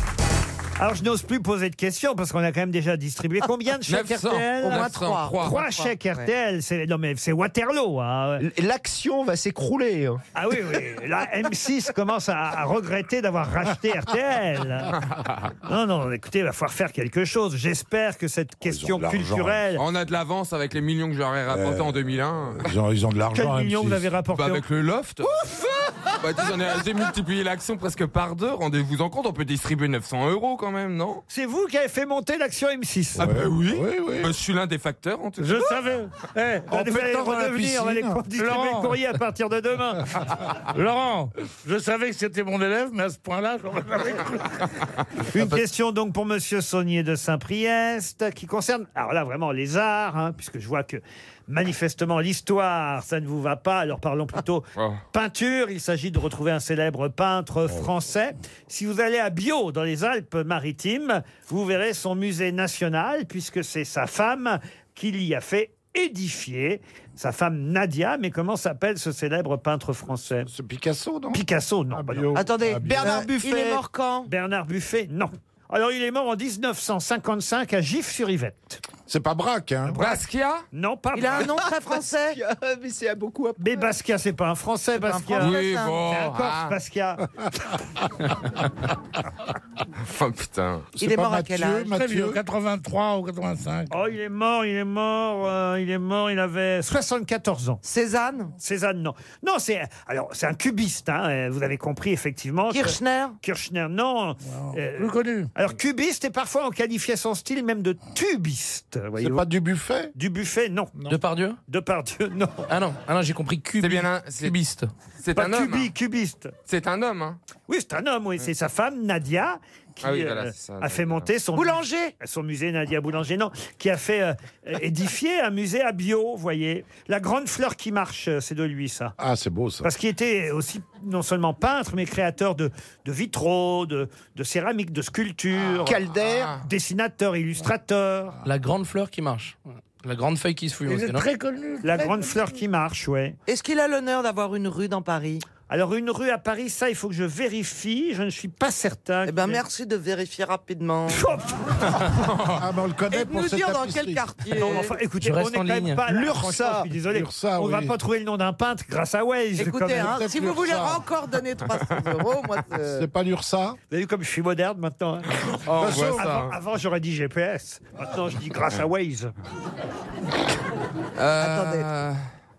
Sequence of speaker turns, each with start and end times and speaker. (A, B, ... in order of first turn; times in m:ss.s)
0:00.8-0:08.4 A
0:03.9-0:05.6 B
0:04.6-0:06.3 C
0:08.4-0:10.2 D
0:10.3-0:15.0 A
0:15.0-0:15.5 B
0:15.6-0:19.8 A
0:18.6-0:19.6 E
0:19.8-0:22.7 B
0:21.5-0:22.0 E
0:22.5-0:24.1 E
0:23.3-0:24.6 A
0:24.3-0:25.4 B
0:26.2-0:31.2 B
0:31.3-0:33.3 A
0:33.2-0:34.3 E
0:33.2-0:35.7 B
0:35.4-0:36.7 F
0:36.7-0:38.2 E
0:36.7-0:40.2 A
0:38.4-0:39.0 F
0:40.7-0:44.6 F
0:45.3-1:10.5 A
0:54.8-0:55.0 B
1:10.5-1:13.2 E
1:11.3-1:12.3 A
1:12.3-1:14.3 C
1:12.8-1:13.8 D
1:14.3-1:18.8 A
1:19.1-1:20.0 E
1:19.9-1:21.5 A
1:20.0-1:20.6 B
1:21.1-1:22.4 C
1:22.1-1:23.9 D
1:23.6-1:27.3 A
1:24.9-1:26.1 C
1:25.4-1:26.7 B
1:30.0-1:30.9 B
1:31.0-1:32.4 E
1:31.0-1:31.9 C
1:31.9-1:33.9 F
1:33.9-1:37.8 A
1:37.8-1:38.5 C
1:38.6-1:49.4 A
1:42.7-1:43.4 C
1:44.5-1:45.5 F
1:49.2-1:50.1 E
1:50.1-1:50.9 A
1:51.1-1:51.6 G
1:51.7-1:52.6 A
1:52.7-1:54.9 G
1:53.8-1:54.6 B
1:55.2-1:55.9 B
1:55.3-1:56.5 A
1:56.7-1:57.4 B
1:57.7-2:09.2 A
2:00.0-2:01.3 B
2:01.5-2:02.1 C
2:09.2-2:09.9 E
2:09.8-2:16.0 A
2:15.8-2:16.6 D
2:15.8-2:16.6 B
2:16.6-2:18.4 A
2:18.4-2:21.3 G
2:20.8-2:22.4 F
2:21.8-2:23.4 A
2:23.5-2:25.4 C
2:25.7-2:29.6 A
2:29.2-2:31.2 C
2:31.1-2:32.0 A
2:32.1-2:32.6 B
2:32.5-2:34.2 E
2:33.1-2:35.0 C
2:34.6-2:40.1 A
2:35.2-2:36.0 G
2:36.1-2:36.8 D
2:37.1-2:38.0 E
2:39.6-2:43.1 C
2:40.0-2:41.0 E
2:42.8-2:43.8 E
2:43.9-2:49.3 A
2:45.6-2:46.5 B
2:45.8-2:46.3 E
2:51.2-2:52.2 B
2:51.4-2:51.9 C